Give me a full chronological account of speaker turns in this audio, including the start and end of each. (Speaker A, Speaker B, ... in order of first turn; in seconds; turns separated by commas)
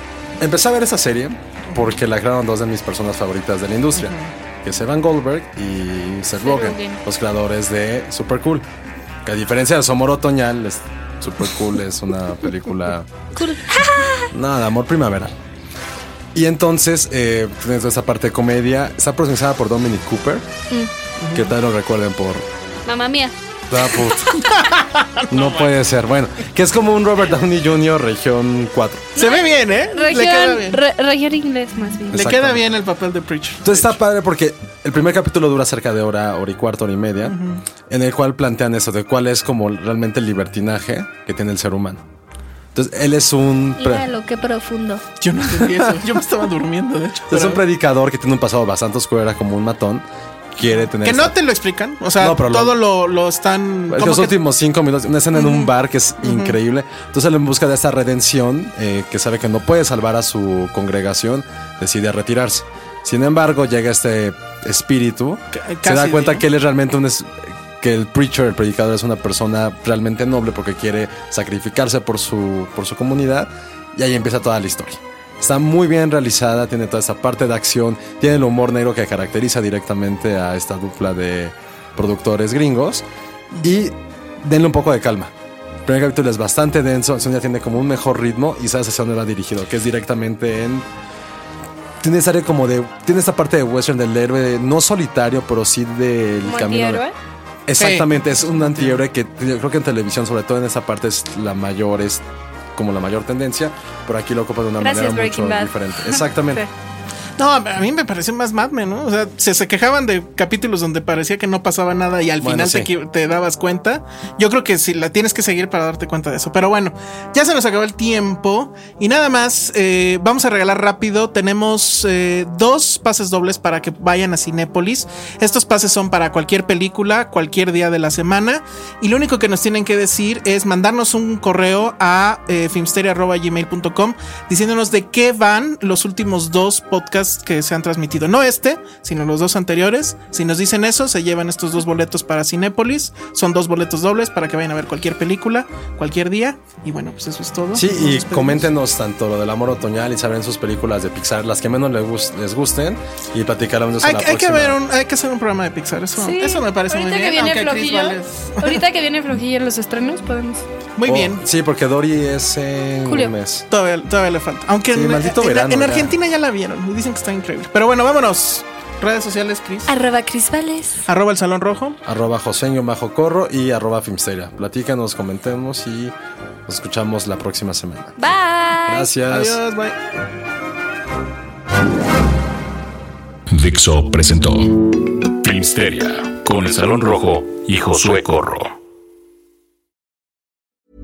Speaker A: 0.4-8.7, Speaker B: 4.0-4.3, Speaker C: 6.4-7.0, Speaker A: 9.2-13.1, Speaker C: 13.3-14.3, Speaker A: 14.3-15.3, Speaker A: 16.3-20.5, Speaker B: 21.2-21.5, Speaker A: 21.3-22.5, Speaker C: 22.9-23.3, Speaker A: 23.7-24.5, Speaker B: 24.2-25.7, Speaker A: 25.3-29.1, Speaker B: 29.1-30.8, Speaker C: 29.2-32.2, Speaker B: 32.1-33.9, Speaker A: 32.1-32.7, Speaker A: 33.6-37.4, Speaker B: 37.2-37.6, Speaker A: 37.9-42.0, Speaker A: 42.7-44.1, Speaker C: 43.8-45.0, Speaker B: 45.2-47.6, Speaker A: 45.6-46.0, Speaker A: 47.3-51.3, Speaker B: 50.6-54.4, Speaker A: 52.2-52.8, Speaker A: 53.9-83.0, Speaker B: 55.4-55.7, Speaker B: 56.2-56.6, Speaker B: 65.5-66.5, Speaker A: 83.6-85.3, Speaker A: 85.8-90.9, Speaker A: 92.0-97.0, Speaker C: 96.4-97.1, Speaker A: 97.7-102.2, Speaker B: 97.8-99.0, Speaker A: 102.8-106.6, Speaker C: 104.8-106.7, Speaker B: 107.4-148.7, Speaker A: 112.4-112.9, Speaker A: 147.7-154.8, Speaker B: 154.0-158.8, Speaker C: 156.2-160.6, Speaker B: 161.0-161.4, Speaker A: 161.1-163.7, Speaker C: 163.1-163.3, Speaker B: 163.7-169.9, Speaker A: 164.9-166.1, Speaker C: 169.9-171.0, Speaker B: 171.1-172.0, Speaker A: 172.0-176.1, Speaker A: 176.7-178.2, Speaker C: 178.2-179.1, Speaker A: 178.8-179.6, Speaker B: 179.3-180.0, Speaker D: 183.5-188.7